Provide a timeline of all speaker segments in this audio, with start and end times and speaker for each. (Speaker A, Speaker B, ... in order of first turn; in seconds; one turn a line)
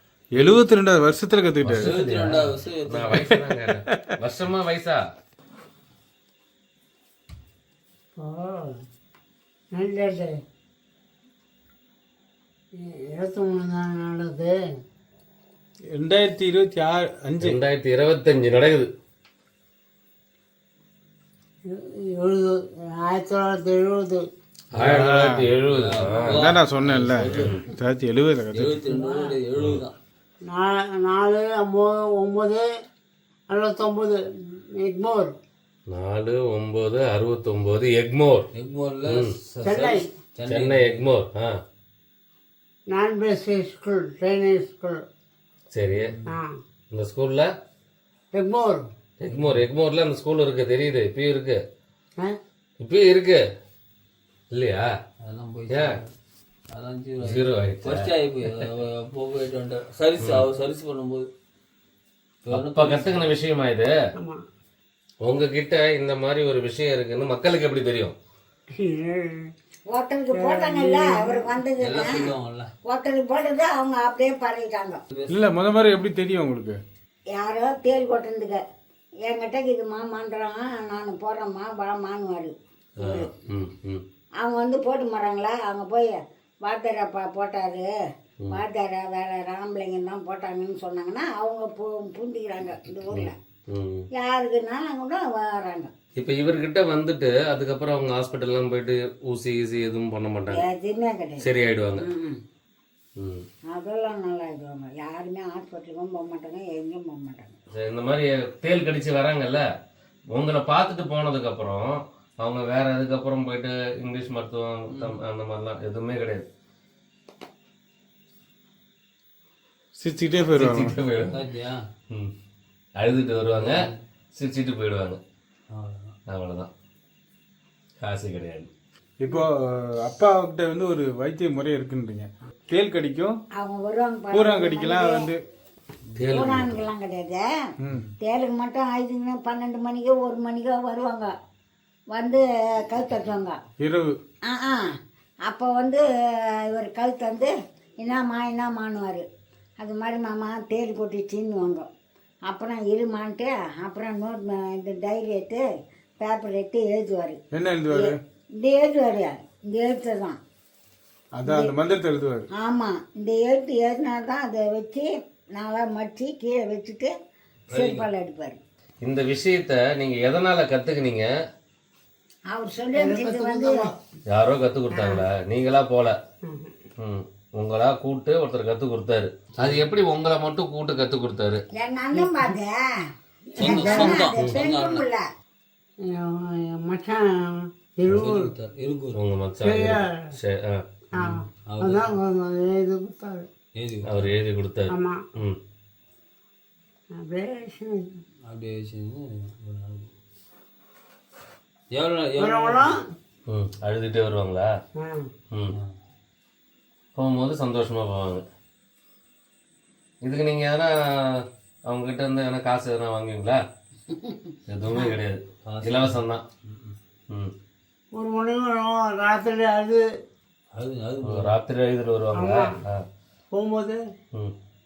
Speaker A: 0.4-1.9
Speaker B: 1.6-5.0
Speaker C: 1.8-3.3
Speaker A: 3.5-4.1
Speaker D: 8.2-8.8
Speaker D: 9.8-10.3
Speaker D: 12.8-14.6
Speaker A: 15.9-17.6
Speaker B: 17.4-18.9
Speaker D: 21.7-24.3
Speaker B: 24.8-26.4
Speaker A: 24.8-25.5
Speaker C: 25.7-27.6
Speaker A: 26.3-28.8
Speaker C: 28.5-30.0
Speaker E: 28.9-29.4
Speaker B: 29.6-29.8
Speaker D: 30.5-32.6
Speaker D: 33.5-34.2
Speaker D: 34.8-35.3
Speaker B: 35.9-38.5
Speaker C: 38.5-41.1
Speaker B: 39.1-39.3
Speaker D: 39.6-40.1
Speaker B: 40.5-41.5
Speaker D: 42.9-45.0
Speaker B: 45.7-46.1
Speaker C: 45.9-46.3
Speaker D: 46.3-46.6
Speaker B: 46.9-47.5
Speaker D: 48.3-48.9
Speaker B: 49.2-51.6
Speaker C: 49.3-49.7
Speaker B: 52.8-53.4
Speaker B: 54.5-54.9
Speaker C: 55.2-56.1
Speaker C: 56.7-61.3
Speaker B: 57.2-58.1
Speaker C: 62.4-63.3
Speaker B: 62.5-63.9
Speaker B: 65.2-68.2
Speaker D: 68.8-69.5
Speaker E: 69.9-75.0
Speaker D: 70.3-71.5
Speaker C: 71.8-72.7
Speaker C: 75.1-75.5
Speaker A: 75.3-76.8
Speaker E: 77.4-78.6
Speaker E: 79.2-83.3
Speaker B: 83.0-84.0
Speaker E: 84.4-87.9
Speaker E: 88.5-93.3
Speaker B: 93.1-94.1
Speaker E: 94.2-95.9
Speaker B: 96.2-100.6
Speaker E: 100.5-101.4
Speaker B: 101.4-102.1
Speaker E: 102.0-102.4
Speaker B: 103.2-103.5
Speaker E: 103.7-107.5
Speaker B: 107.7-109.7
Speaker B: 110.3-116.5
Speaker C: 114.9-115.2
Speaker A: 120.0-121.0
Speaker B: 120.6-121.4
Speaker C: 121.3-121.8
Speaker B: 123.0-123.8
Speaker C: 123.6-124.0
Speaker B: 124.4-125.2
Speaker C: 125.7-126.2
Speaker B: 126.3-126.7
Speaker B: 128.0-128.7
Speaker A: 129.2-133.4
Speaker E: 133.6-135.3
Speaker A: 134.3-135.4
Speaker B: 136.2-136.8
Speaker E: 136.3-137.4
Speaker A: 137.8-138.1
Speaker E: 138.2-141.3
Speaker E: 142.1-143.6
Speaker A: 143.8-144.2
Speaker E: 144.5-144.9
Speaker E: 145.5-146.0
Speaker E: 146.7-149.3
Speaker E: 149.8-151.9
Speaker E: 152.5-155.7
Speaker E: 156.2-157.4
Speaker A: 157.5-158.2
Speaker E: 157.9-160.4
Speaker A: 161.4-162.5
Speaker E: 161.4-161.8
Speaker E: 162.5-167.1
Speaker C: 167.7-168.1
Speaker E: 167.7-168.6
Speaker B: 169.0-171.3
Speaker E: 172.5-173.9
Speaker D: 172.9-173.9
Speaker B: 174.3-176.2
Speaker D: 176.5-176.7
Speaker B: 177.0-181.6
Speaker E: 181.7-182.9
Speaker D: 183.6-184.2
Speaker C: 183.6-185.1
Speaker E: 183.6-185.2
Speaker D: 186.1-188.5
Speaker C: 188.1-189.2
Speaker B: 189.1-190.8
Speaker D: 189.6-190.3
Speaker D: 191.1-193.5
Speaker C: 191.2-192.2
Speaker C: 193.8-194.3
Speaker B: 194.1-195.6
Speaker D: 194.9-195.2
Speaker D: 197.2-198.1
Speaker C: 198.5-200.1
Speaker C: 201.9-202.9
Speaker D: 202.4-203.1
Speaker B: 203.5-204.7
Speaker D: 205.0-205.3
Speaker B: 207.2-208.4
Speaker B: 210.2-213.6
Speaker B: 214.7-216.4
Speaker C: 215.7-217.0
Speaker D: 218.2-220.0
Speaker C: 220.8-221.6
Speaker B: 221.3-223.0
Speaker D: 222.3-222.8
Speaker D: 223.5-224.0